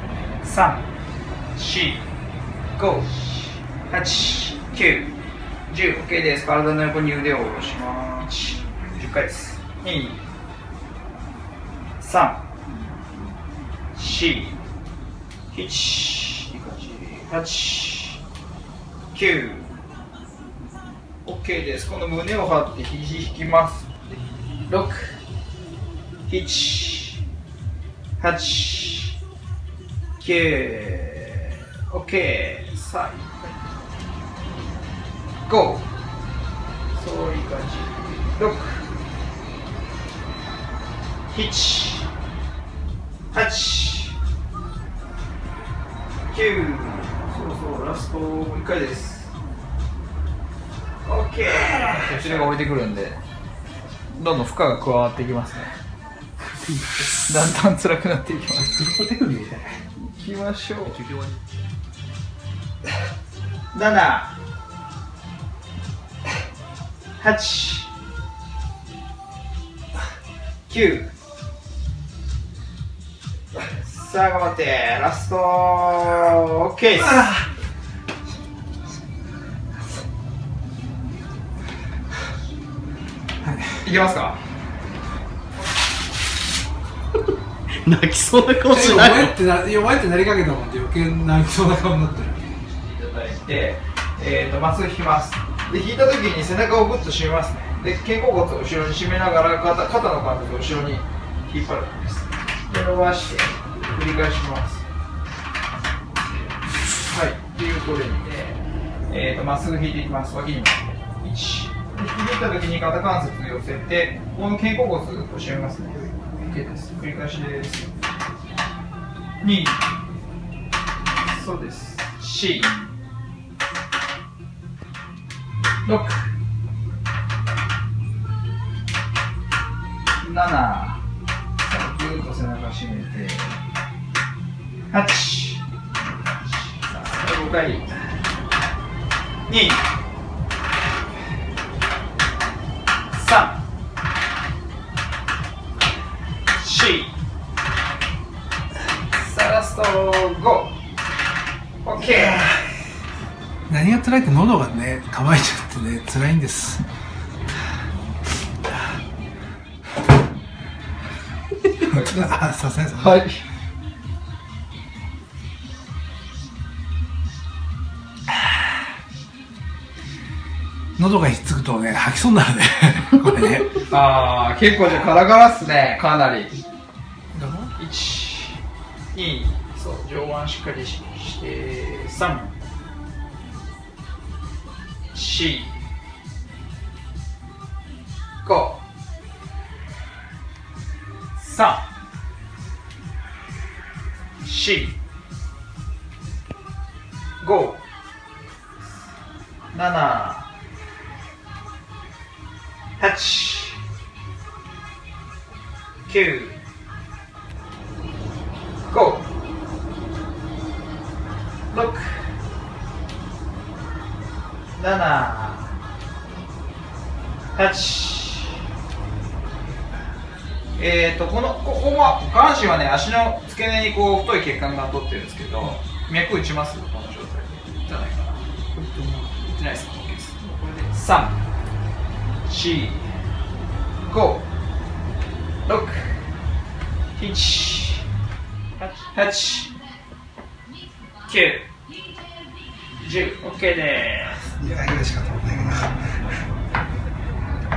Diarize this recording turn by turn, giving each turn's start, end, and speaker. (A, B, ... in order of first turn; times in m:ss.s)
0:00.4-0:00.9 A
0:01.6-0:02.1 A
0:02.8-0:05.1 A
0:05.7-0:10.2 A
0:12.0-0:12.6 A
0:14.0-0:14.6 A
0:15.5-0:18.2 A
0:19.1-0:19.8 A
0:21.2-0:23.9 A
0:24.7-0:25.2 A
0:26.3-0:27.2 A
0:28.2-0:29.2 A
0:30.2-0:33.6 A
0:35.5-0:35.9 A
0:36.9-0:38.9 A
0:41.3-0:42.1 A
0:43.3-0:44.2 A
0:46.3-0:49.3 A
0:51.0-0:53.2 A
0:51.6-0:52.1 B
0:52.0-0:52.5 C
0:54.1-0:55.8 A
0:57.3-0:58.8 A
0:58.5-0:59.8 B
1:00.0-1:01.0 A
1:00.8-1:01.4 C
1:03.7-1:04.4 A
1:07.2-1:07.9 A
1:10.7-1:11.1 A
1:13.6-1:17.3 A
1:17.0-1:17.3 B
1:23.4-1:23.8 B
1:23.8-1:24.4 A
1:27.8-1:29.4 C
1:28.7-1:32.5 B
1:32.7-1:44.8 A
1:47.1-1:57.9 A
1:55.9-1:56.4 B
1:59.4-1:59.8 A
2:01.0-2:02.9 A
2:05.8-2:06.3 A
2:10.2-2:11.0 A
2:11.6-2:13.6 A
2:14.9-2:17.9 A
2:19.5-2:19.8 A
2:23.1-2:23.6 A
2:26.5-2:27.1 A
2:29.1-2:30.8 A
2:31.8-2:32.5 A
2:32.0-2:32.6 B
2:33.7-2:36.8 B
2:41.8-2:42.4 A
2:41.8-2:43.2 B
2:42.9-2:43.4 A
2:51.0-2:53.7 B
2:53.9-2:56.6 A
2:57.3-2:57.7 B
2:57.8-2:58.6 A
2:59.1-3:02.6 A
3:05.1-3:05.8 A
3:08.4-3:08.8 A
3:11.4-3:11.9 A
3:14.4-3:15.0 A
3:17.4-3:17.8 A
3:19.7-3:20.5 A
3:23.0-3:23.8 A
3:26.1-3:26.6 A
3:28.9-3:29.3 A
3:31.7-3:32.4 A
3:34.8-3:35.8 A
3:37.6-3:38.6 A
3:40.8-3:48.4 A
3:48.8-3:49.4 B
3:49.4-3:51.4 A
3:52.4-3:53.1 A
3:54.0-3:54.5 A
3:55.6-3:56.2 A
3:57.2-3:58.1 A
3:58.8-3:59.7 A
4:01.3-4:01.7 A
4:03.0-4:04.5 A
4:04.6-4:06.0 B